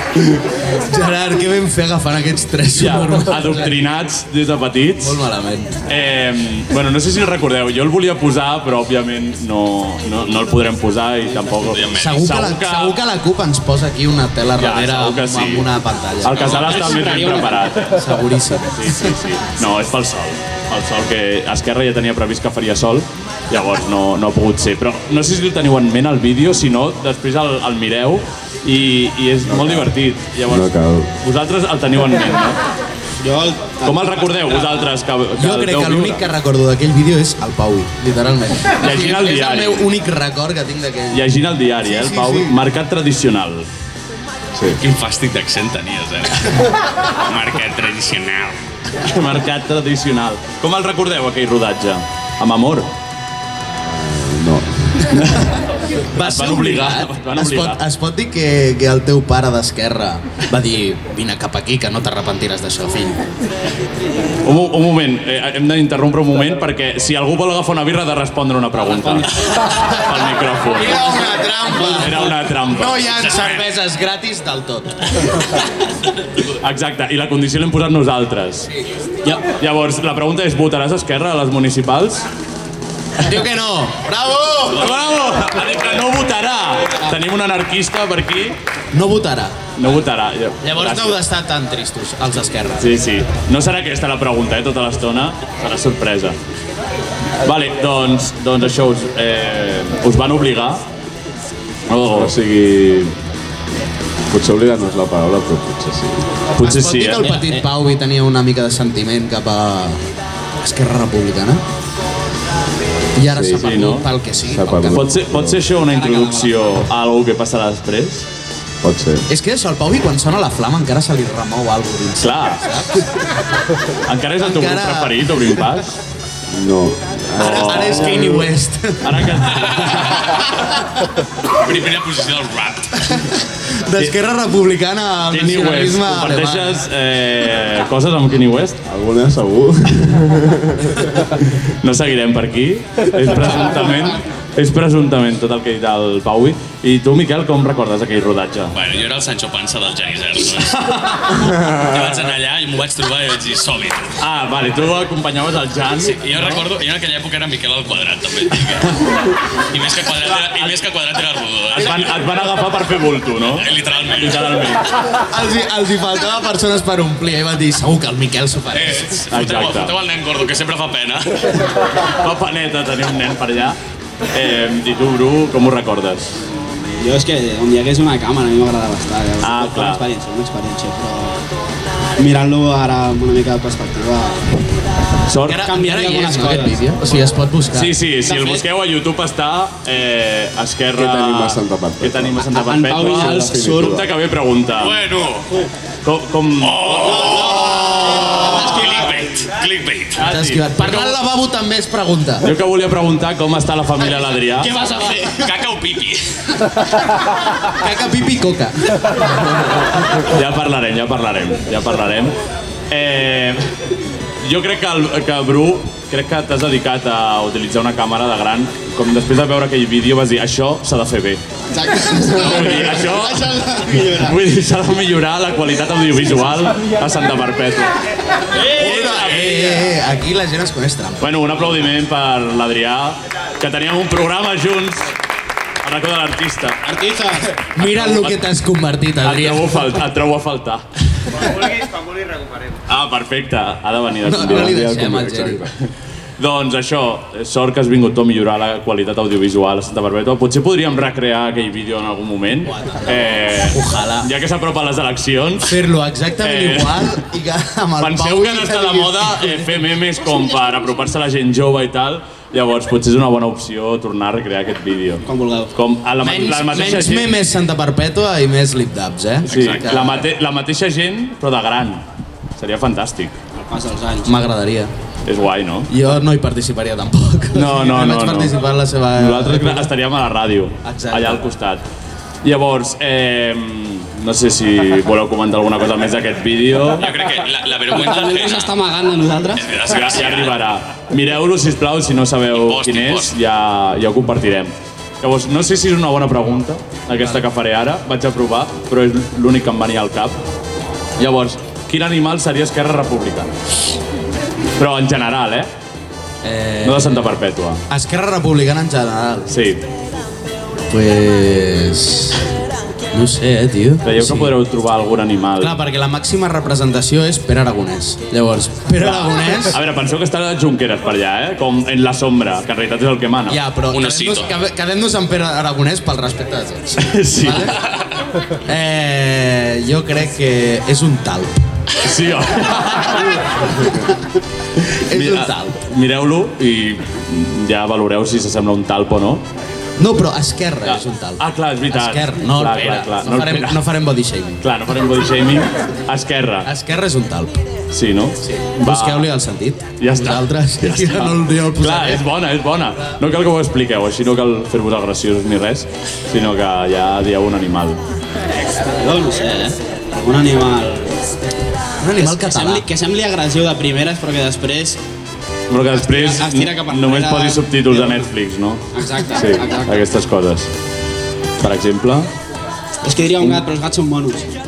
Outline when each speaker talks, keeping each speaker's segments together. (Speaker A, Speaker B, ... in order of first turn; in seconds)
Speaker A: 0.6-3.8, 5.0-5.8, 11.9-16.9, 17.9-19.1, 35.4-41.3, 41.8-42.5, 56.1-63.2, 70.6-75.2, 83.2-85.0, 88.9-89.5, 90.6-92.9, 106.6-110.0, 110.6-111.6, 113.2-115.0, 119.3-122.9, 124.4-125.3, 127.4-129.7, 133.1-136.8, 165.2-169.2, 185.4-187.9, 200.2-202.5, 207.8-208.8, 228.6-231.3, 237.7-240.0, 241.4-241.7, 244.2-245.6, 252.7-254.3, 255.7-259.8, 266.2-270.2, 274.2-274.9, 275.9-279.9, 280.8-281.4, 306.4-307.3, 307.9-309.5, 310.9-312.5, 313.1-314.6, 315.6-319.8, 323.5-327.8, 328.6-331.5, 335.1-335.8, 340.0-344.6, 346.6-347.5, 348.4-352.3, 362.0-362.9
Speaker B: 2.7-5.2, 5.8-13.0, 14.6-15.7, 16.2-32.6, 33.8-36.2, 38.8-39.9, 41.1-43.7, 49.0-52.9, 55.1-55.5, 56.1-57.8, 64.4-71.1, 71.8-73.2, 76.5-78.7, 79.5-82.2, 84.7-88.6, 89.8-91.2, 92.8-96.4, 97.4-100.8, 101.9-102.3, 106.5-107.3, 113.6-114.1, 114.9-118.3, 122.2-122.6, 124.0-126.0, 127.4-128.3, 129.0-130.3, 135.3-138.8, 141.8-148.8, 154.2-156.6, 160.3-160.7, 161.7-164.9, 169.3-170.0, 172.0-173.8, 174.3-176.3, 179.4-180.0, 185.3-185.7, 187.7-195.0, 196.0-197.4, 200.2-201.2, 202.4-204.7, 210.2-212.3, 212.9-213.7, 214.4-221.4, 222.3-227.9, 228.7-229.8, 231.2-235.1, 235.8-236.8, 237.8-238.4, 239.2-240.8, 242.9-244.8, 246.4-255.8, 256.4-257.2, 258.0-267.3, 269.4-272.0, 272.6-273.3, 275.2-275.9, 277.5-278.5, 279.1-281.8, 282.4-287.2, 289.9-300.4, 301.2-303.5, 304.8-305.7, 306.8-307.8, 309.5-309.8, 314.0-315.8, 319.0-323.6, 327.0-327.7, 332.0-333.4, 335.1-339.4, 340.8-343.8, 344.6-346.7, 347.9-349.3, 350.0-358.0, 365.7-370.7, 371.6-372.3
Speaker C: 11.4-11.7, 16.3-17.7, 33.2-34.8, 68.8-69.5, 107.2-107.6, 115.9-116.5, 177.0-181.4, 182.2-184.5, 185.6-186.8, 188.2-188.6, 192.5-193.7, 197.2-199.2, 204.6-205.5, 221.7-224.4, 236.8-237.5, 265.3-265.7, 273.5-274.4, 287.9-289.7, 358.9-361.2, 362.2-365.0, 365.9-368.3, 368.9-370.1, 373.0-374.5
Speaker D: 11.7-12.2, 44.8-48.6, 131.4-133.1, 148.7-154.1, 156.0-159.1, 159.7-162.2, 163.5-164.8, 168.7-171.6, 194.8-195.5, 196.6-200.2, 205.4-206.2, 269.4-269.8, 287.0-288.8, 289.6-290.6, 292.5-293.3, 323.9-324.5
Speaker E: 29.4-29.9, 30.5-31.1, 44.5-44.8, 53.8-55.1, 102.0-103.1, 104.3-106.3, 113.3-113.6, 114.4-115.7, 118.8-119.2, 126.5-128.4, 138.9-141.3, 190.9-194.1, 244.5-245.7